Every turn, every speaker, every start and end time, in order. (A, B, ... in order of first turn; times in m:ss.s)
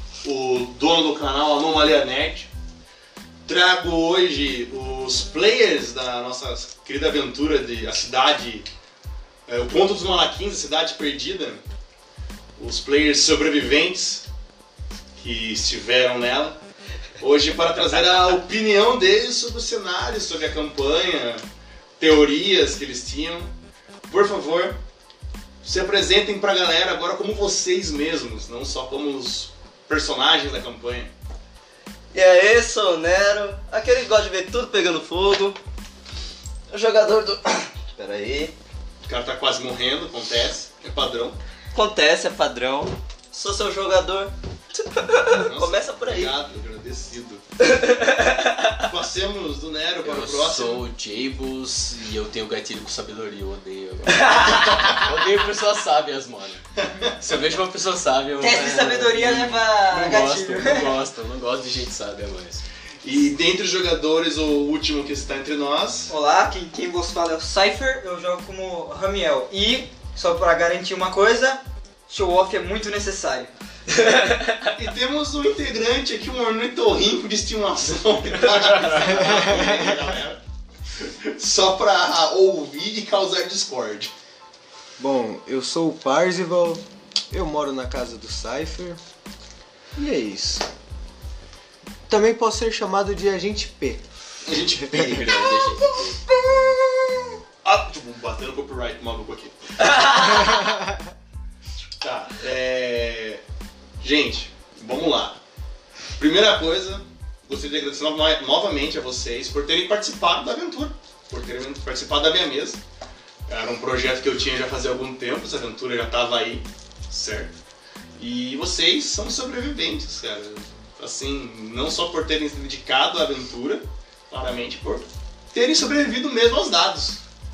0:00.2-0:02.5 A
0:03.5-0:08.7 A
0:09.5-0:11.6 A
0:12.6-0:14.2 A
0:15.2-0:16.6 A
0:17.2-0:21.4 A
0:22.0-0:23.5 A
0:24.1-0:24.8 A
0:25.6-0:31.1 A
0:32.1-0:35.6 B
0:36.7-0:38.5 B
0:39.0-0:41.4 A
0:41.7-0:46.3 B
0:45.2-0:47.4 A
0:47.6-0:48.8 B
0:48.8-0:50.8 A
0:50.0-0:56.6 C
0:54.1-0:54.9 B
0:56.8-0:57.2 A
0:57.2-1:02.6 C
0:58.4-1:00.9 D
1:03.0-1:06.1 A
1:06.1-1:13.5 D
1:14.0-1:14.6 B
1:14.8-1:20.4 A
1:18.8-1:20.0 E
1:20.9-1:24.1 A
1:25.0-1:29.0 E
1:30.0-1:30.7 E
1:32.1-1:34.0 E
1:34.4-1:35.5 A
1:34.8-1:37.4 E
1:35.0-1:36.2 C
1:37.6-1:39.6 A
1:40.1-1:41.0 E
1:42.0-1:43.4 A
1:44.0-1:45.4 A
1:46.2-1:52.8 A
1:53.5-1:57.5 A
1:58.2-2:07.2 A